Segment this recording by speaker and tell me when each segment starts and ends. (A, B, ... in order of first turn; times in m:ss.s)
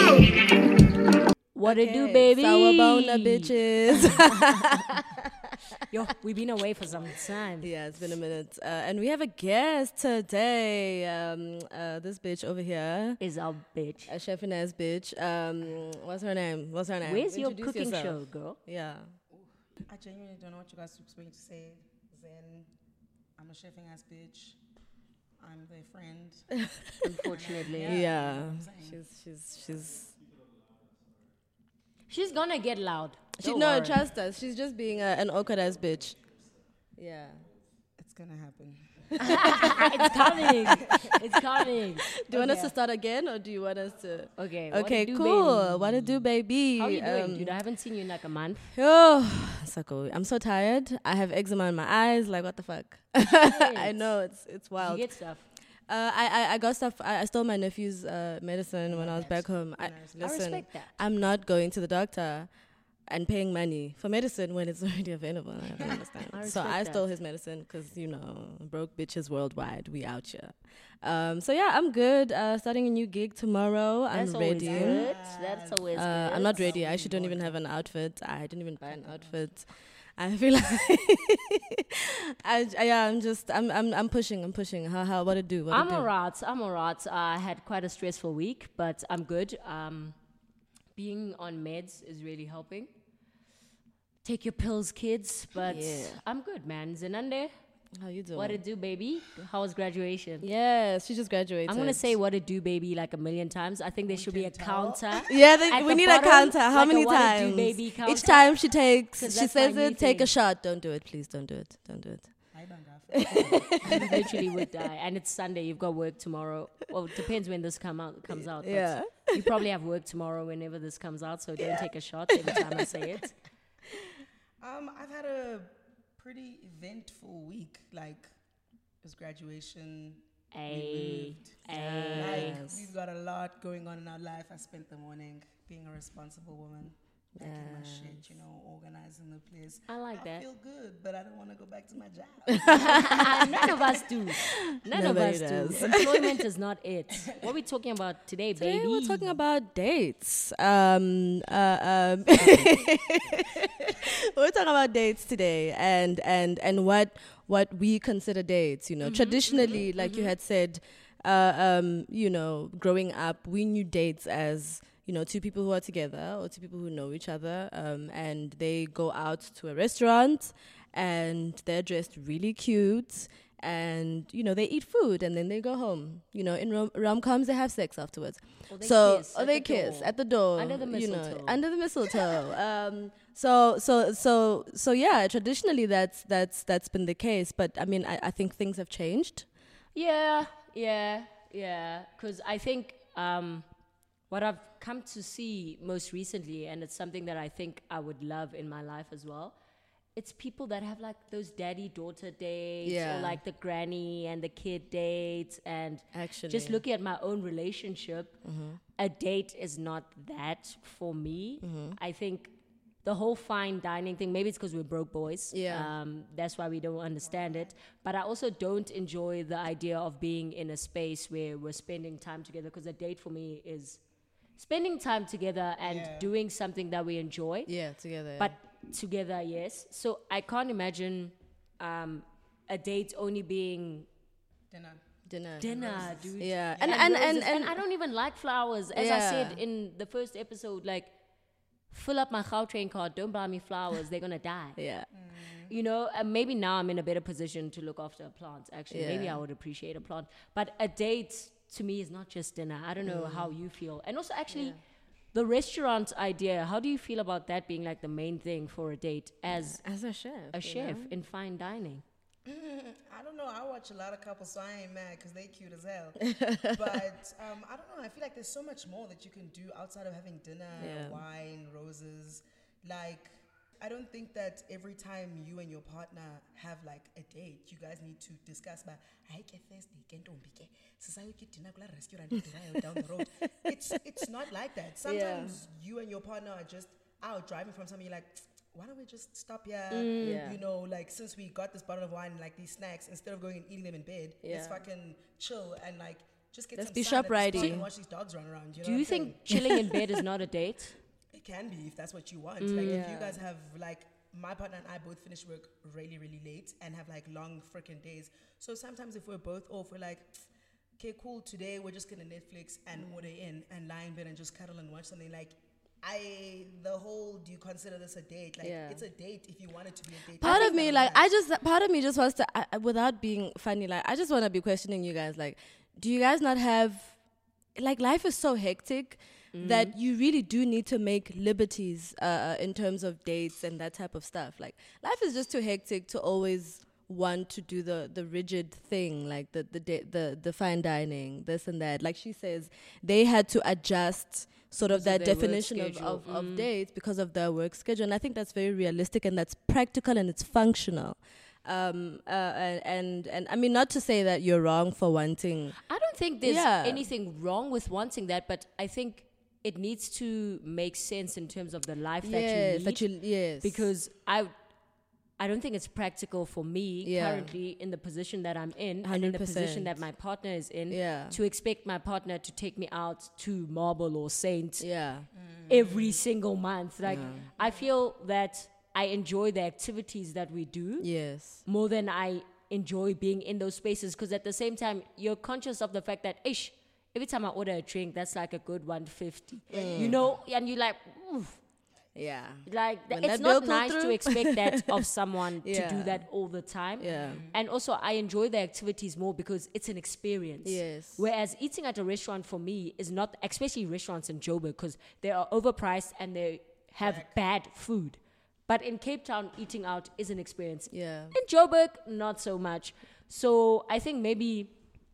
0:01.5-0:04.8 A
0:01.6-0:05.6 B
0:05.9-0:07.7 A
0:06.9-0:07.3 C
0:07.6-0:13.2 B
0:13.2-0:14.1 A
0:14.1-0:19.1 B
0:17.0-0:18.6 A
0:19.3-0:22.7 C
0:23.4-0:24.6 C
0:25.4-0:26.5 C
0:26.6-0:27.0 B
0:27.0-0:28.0 A
0:27.2-0:29.0 C
0:27.8-0:30.1 B
0:32.1-0:34.0 A
0:33.4-0:36.2 B
0:37.0-0:37.4 B
0:38.0-0:39.9 C
0:39.2-0:42.7 A
0:39.2-0:47.6 B
0:40.7-0:41.1 C
0:44.4-0:46.2 A
0:46.8-0:48.7 A
0:48.7-0:55.0 B
0:53.3-0:54.0 A
0:54.8-0:55.4 A
0:55.9-1:02.5 B
0:58.9-1:00.4 C
1:00.2-1:00.9 A
1:03.1-1:15.1 B
1:05.8-1:06.1 C
1:06.3-1:07.0 A
1:14.1-1:16.8 A
1:14.6-1:17.6 C
1:15.9-1:26.1 B
1:18.9-1:19.4 C
1:25.7-1:30.1 A
1:30.9-1:32.9 A
1:34.2-1:37.5 A
1:35.6-1:36.2 B
1:38.0-1:38.6 B
1:38.3-1:40.4 A
1:40.4-1:42.1 B
1:41.7-1:48.5 A
1:44.1-1:45.3 C
1:45.3-1:52.3 B
1:49.1-1:50.3 A
1:52.5-1:54.2 C
1:53.1-1:54.7 B
1:53.7-2:03.3 A
1:58.3-1:59.6 B
2:01.6-2:01.9 C
2:02.4-2:02.8 B
2:02.5-2:02.8 C
2:04.6-2:08.3 C
2:09.0-2:11.6 C
2:10.5-2:12.6 A
2:11.7-2:12.9 B
2:12.1-2:24.0 C
2:17.4-2:18.2 B
2:19.9-2:20.4 A
2:22.5-2:23.6 B
2:22.7-2:29.3 A
2:24.3-2:26.4 B
2:28.6-3:09.4 B
2:39.0-2:40.3 A
2:58.7-3:01.6 A
3:09.9-3:13.6 A
3:14.3-3:19.5 A
3:20.2-3:28.4 A
3:22.8-3:23.4 B
3:26.1-3:26.8 B
3:28.4-3:28.8 B
3:29.0-3:32.5 A
3:31.6-3:32.0 B
3:33.0-3:44.0 A
3:35.5-3:35.9 B
3:37.2-3:37.7 C
3:44.6-3:47.7 A
3:45.8-3:46.3 C
3:47.7-3:48.5 B
3:48.4-3:54.1 A
3:54.7-3:55.0 C
3:55.3-3:55.8 B
3:55.6-4:01.1 A
3:55.6-3:57.3 C
3:56.4-3:57.8 B
3:58.9-3:59.6 B
4:01.9-4:04.8 A
4:04.8-4:05.0 B
4:05.1-4:05.7 C
4:05.7-4:14.8 A
4:08.9-4:09.4 B
4:13.0-4:13.5 B
4:14.5-4:14.8 B
4:15.3-4:19.8 A
4:19.5-4:21.1 B
4:20.5-4:22.0 A
4:22.4-4:59.6 C
4:26.2-4:27.0 B
4:30.8-4:31.2 B
4:45.0-4:45.5 B
4:49.9-4:50.4 A
4:50.2-4:50.6 B
4:54.4-4:54.8 B
4:56.8-4:57.9 B
4:58.8-5:01.0 A
4:59.5-5:00.2 B
5:01.3-5:10.4 C
5:02.6-5:03.0 A
5:02.8-5:03.4 B
5:11.0-5:21.3 C
5:18.6-5:19.0 B
5:20.4-5:27.1 B
5:20.4-5:20.8 A
5:27.8-5:55.8 B
5:29.5-5:29.9 A
5:44.8-5:46.7 A
5:55.9-6:03.0 A
5:56.4-5:57.1 B
6:02.2-6:03.9 B
6:03.6-6:04.5 A
6:05.4-6:14.8 A
6:07.0-6:07.5 B
6:09.0-6:10.0 B
6:10.9-6:11.4 B
6:14.8-6:15.3 B
6:15.4-6:16.2 C
6:15.7-6:21.1 A
6:17.0-6:17.5 B
6:17.4-6:17.8 C
6:21.0-6:21.6 B
6:21.6-6:31.6 A
6:29.7-6:30.2 B
6:29.7-6:30.4 C
6:32.1-6:35.1 B
6:32.6-6:54.7 A
6:35.6-6:36.2 B
6:37.0-6:37.4 B
6:37.1-6:37.6 C
6:40.6-6:41.2 B
6:47.0-6:47.4 C
6:50.9-6:51.3 B